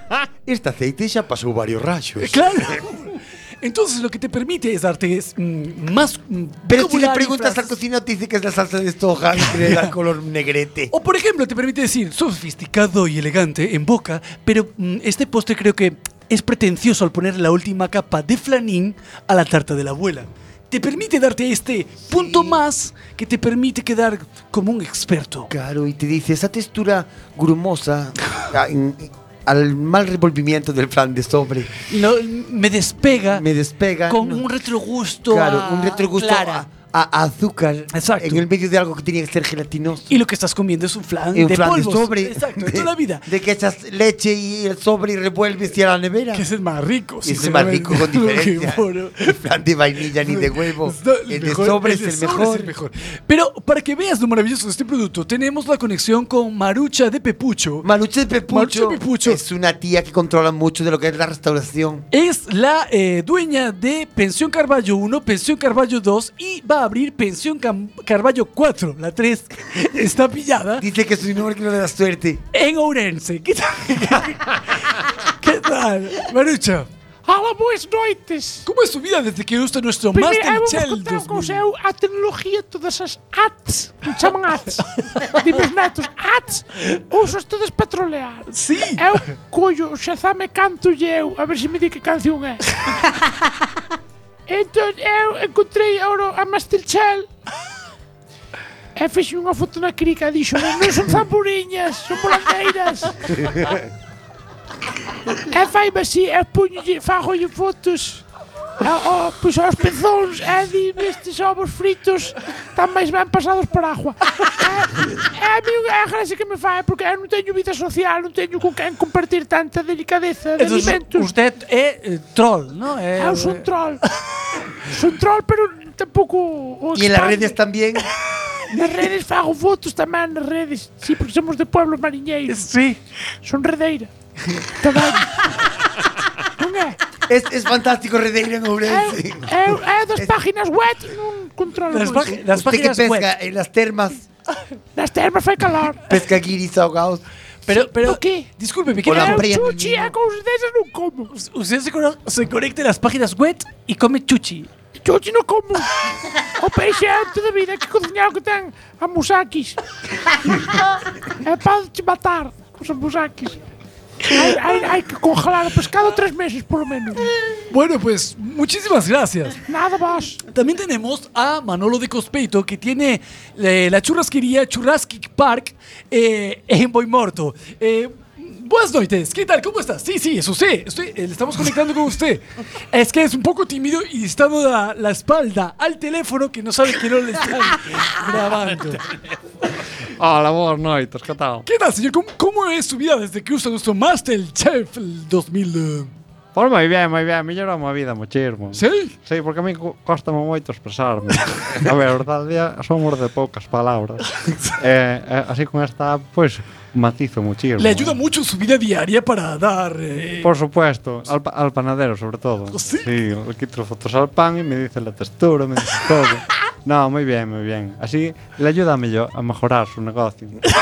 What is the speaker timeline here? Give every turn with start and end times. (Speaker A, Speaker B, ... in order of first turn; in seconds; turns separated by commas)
Speaker A: 0.5-2.8, Speaker B: 2.2-7.7, Speaker A: 6.7-10.9, Speaker B: 9.4-9.9, Speaker B: 10.9-25.5, Speaker A: 22.1-22.6, Speaker A: 25.5-31.7, Speaker B: 31.9-33.5, Speaker A: 33.3-34.5, Speaker B: 34.1-36.6, Speaker A: 35.3-40.2, Speaker B: 37.9-38.5, Speaker B: 40.1-43.3, Speaker A: 41.3-46.5, Speaker B: 46.3-49.4, Speaker A: 47.2-52.7, Speaker B: 50.2-57.9, Speaker A: 57.8-62.0, Speaker B: 58.5-59.4, Speaker B: 62.1-70.8, Speaker A: 70.8-72.4, Speaker B: 72.5-74.6, Speaker B: 75.4-76.9, Speaker C: 77.3-78.7, Speaker B: 78.7-81.7, Speaker C: 80.1-92.6, Speaker B: 88.5-89.2, Speaker C: 94.5-97.3, Speaker C: 99.0-103.2, Speaker C: 105.5-108.2, Speaker C: 108.8-121.3, Speaker B: 120.6-121.0, Speaker D: 120.7-123.6, Speaker C: 123.2-124.0, Speaker C: 124.9-127.6, Speaker A: 127.0-128.1, Speaker C: 128.7-132.7, Speaker B: 132.5-133.0, Speaker C: 133.4-134.1, Speaker C: 134.8-135.3, Speaker C: 136.6-137.0, Speaker A: 137.3-140.3, Speaker C: 138.9-142.4, Speaker B: 141.9-143.3, Speaker A: 142.4-144.2, Speaker C: 144.9-146.0, Speaker A: 146.1-147.2, Speaker B: 147.7-149.5, Speaker C: 147.7-148.5, Speaker A: 149.0-150.1, Speaker C: 149.1-151.3, Speaker B: 151.3-154.7, Speaker C: 155.0-155.9, Speaker C: 156.6-159.8, Speaker C: 161.4-163.6, Speaker C: 164.3-167.3, Speaker B: 167.7-169.6, Speaker C: 169.7-170.4, Speaker B: 170.5-189.0, Speaker E: 190.2-191.7, Speaker B: 191.7-196.1, Speaker E: 196.6-204.2, Speaker B: 198.8-199.1, Speaker E: 204.8-208.2, Speaker B: 207.8-210.5, Speaker E: 210.4-220.6, Speaker B: 212.7-213.1